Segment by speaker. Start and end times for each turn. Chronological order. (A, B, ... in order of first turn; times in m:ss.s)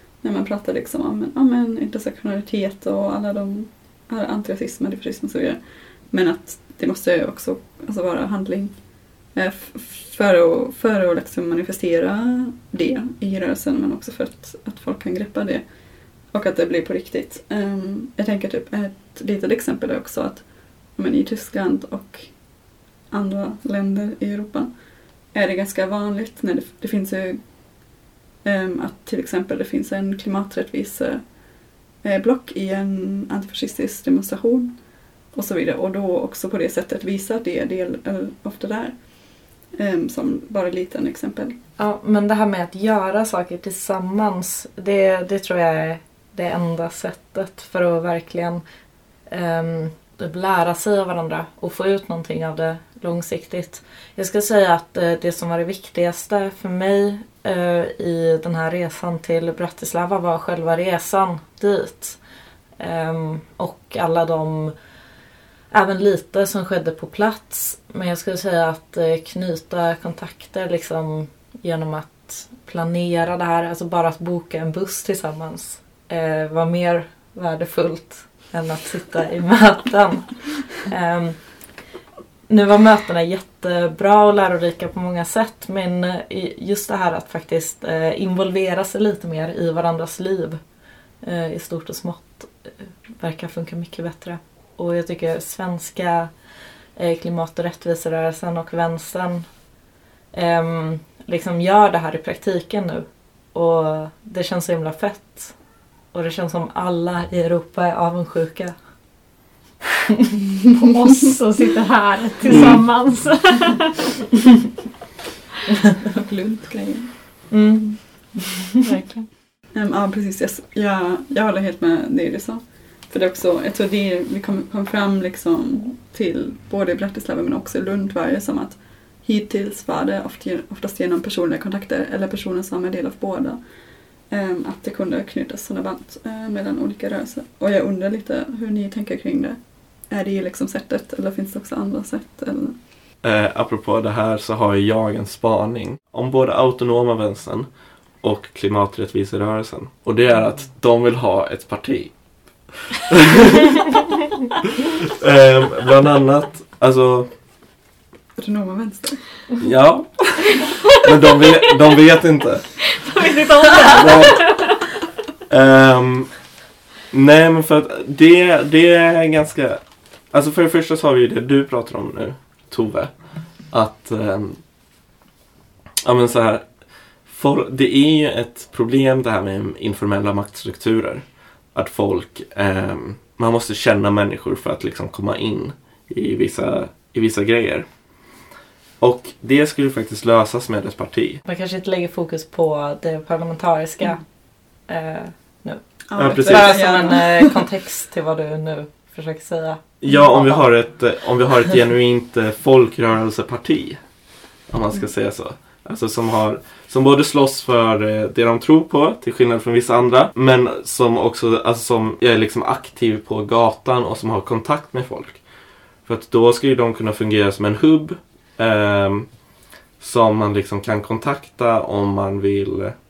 0:00.2-0:08.8 A
0:09.3-0:15.6 A
0:16.3-0:20.4 A
0:21.0-0:22.3 A
0:23.1-0:24.7 A
0:25.3-0:27.4 A
0:28.4-0:31.2 A
0:32.0-0:34.8 A
0:35.3-0:41.6 A
0:41.8-0:48.6 B
0:49.3-1:02.2 B
1:02.8-1:04.7 B
1:05.7-1:21.5 B
1:22.5-1:30.6 B
1:31.2-1:36.3 B
1:37.0-1:39.5 B
1:40.3-1:45.6 B
1:46.1-1:48.8 B
1:50.8-1:53.9 C
1:56.1-1:57.2 A
1:57.5-1:58.7 B
1:58.8-1:59.3 C
1:59.7-2:13.6 A
2:14.3-2:22.8 A
2:23.2-2:27.7 D
2:28.2-2:32.1 D
2:32.9-2:34.1 D
2:35.1-2:37.3 D
2:38.4-2:39.3 A
2:39.6-2:42.8 D
2:42.8-2:44.8 C
2:43.9-2:44.5 D
2:45.5-2:46.3 D
2:47.1-2:53.1 D
2:53.7-2:54.6 D
2:56.0-2:56.7 D
2:57.2-3:07.9 D
3:09.0-3:11.4 D
3:11.5-3:14.2 B
3:14.9-3:20.7 B
3:16.1-3:17.6 A
3:16.2-3:16.7 D
3:20.0-3:24.0 D
3:24.7-3:35.4 D
3:36.1-3:39.3 D
3:40.0-3:43.0 D